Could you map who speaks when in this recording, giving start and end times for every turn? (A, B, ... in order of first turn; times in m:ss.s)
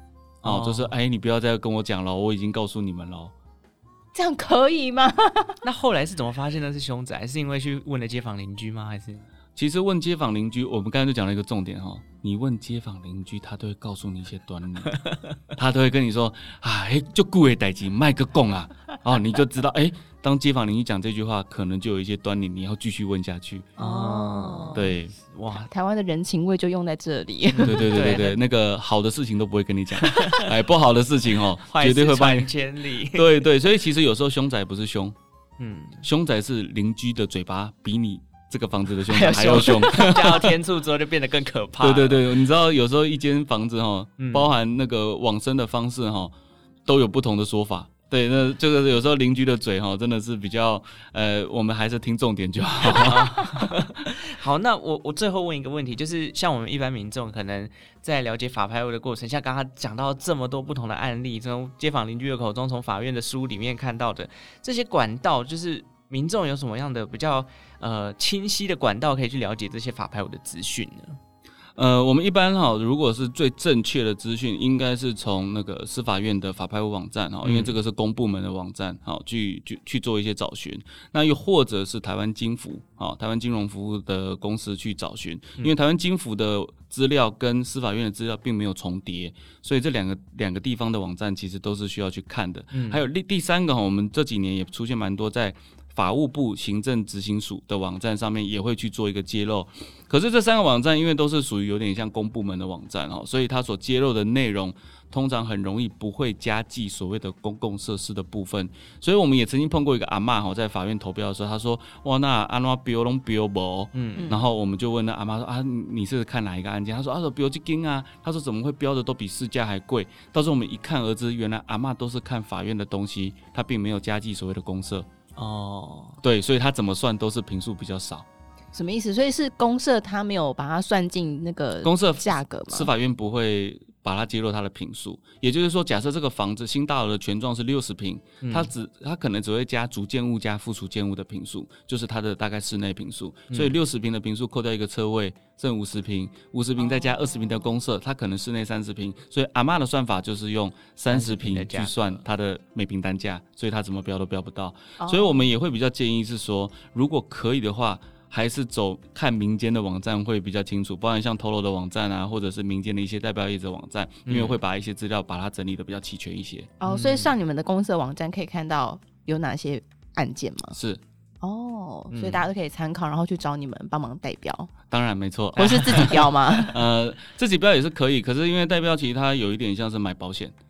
0:00.4-0:00.9 A
0:00.4-0:03.3 B
0:04.1-0:05.6 C
0:05.6-0:09.3 A
0:09.6-0:15.0 B
0:15.5-0:23.7 B
0:23.8-0:24.8 C
0:23.8-0:25.7 A
0:24.7-0:25.2 B
0:25.5-0:27.8 C
0:27.5-0:28.4 A
0:27.6-0:32.5 B
0:30.0-0:30.5 A
0:31.7-0:33.4 A
0:33.1-0:35.2 B
0:35.6-0:36.0 A
0:36.0-0:40.6 B
0:39.1-0:42.3 A
0:41.8-0:46.3 B
0:44.2-0:44.5 A
0:46.9-0:53.7 B
0:52.9-1:11.2 A
1:11.8-2:05.1 B
1:17.4-1:17.8 A
1:32.7-1:33.0 A
1:54.0-1:54.4 A
2:05.4-2:06.2 A
2:06.2-2:08.3 B
2:08.7-2:12.9 C
2:11.8-2:46.7 B
2:18.4-2:18.7 A
2:31.1-2:32.1 A
2:35.0-2:35.5 C
2:44.3-2:44.6 A
2:46.8-2:50.8 C
2:46.9-2:47.3 A
2:50.8-2:51.0 B
2:51.4-2:54.7 C
2:52.1-2:52.4 A
2:54.9-3:00.6 B
2:55.6-2:56.8 C
2:55.6-2:56.2 A